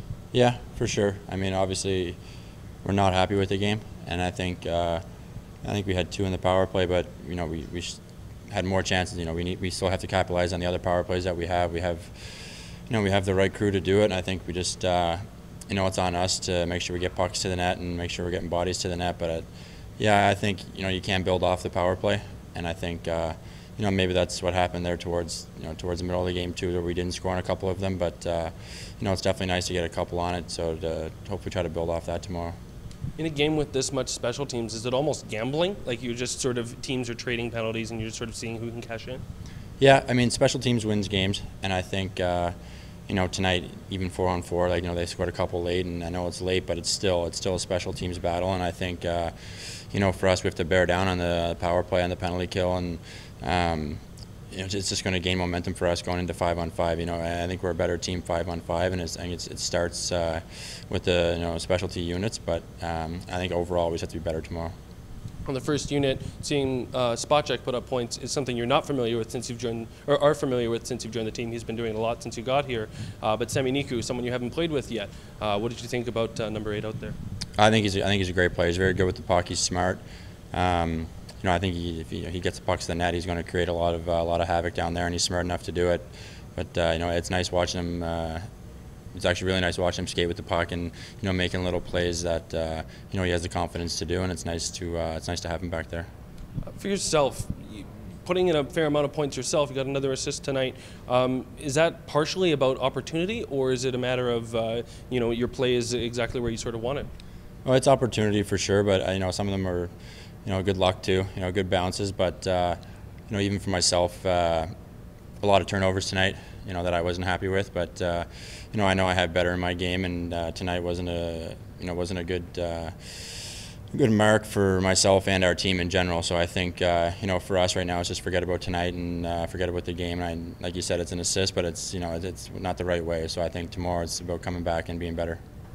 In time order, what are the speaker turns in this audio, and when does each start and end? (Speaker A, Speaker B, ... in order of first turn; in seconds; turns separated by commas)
Speaker A: 0.3-2.2, Speaker A: 2.8-5.0, Speaker A: 5.6-8.0, Speaker A: 8.5-19.4, Speaker A: 20.0-32.5, Speaker B: 33.2-39.2, Speaker A: 39.8-42.5, Speaker A: 43.1-54.0, Speaker A: 54.5-64.7, Speaker B: 65.5-77.2, Speaker A: 77.6-80.0, Speaker A: 80.5-88.4, Speaker A: 89.1-96.1, Speaker B: 96.7-107.1, Speaker A: 107.7-109.9, Speaker A: 110.5-112.8, Speaker A: 113.3-114.7, Speaker A: 115.4-135.4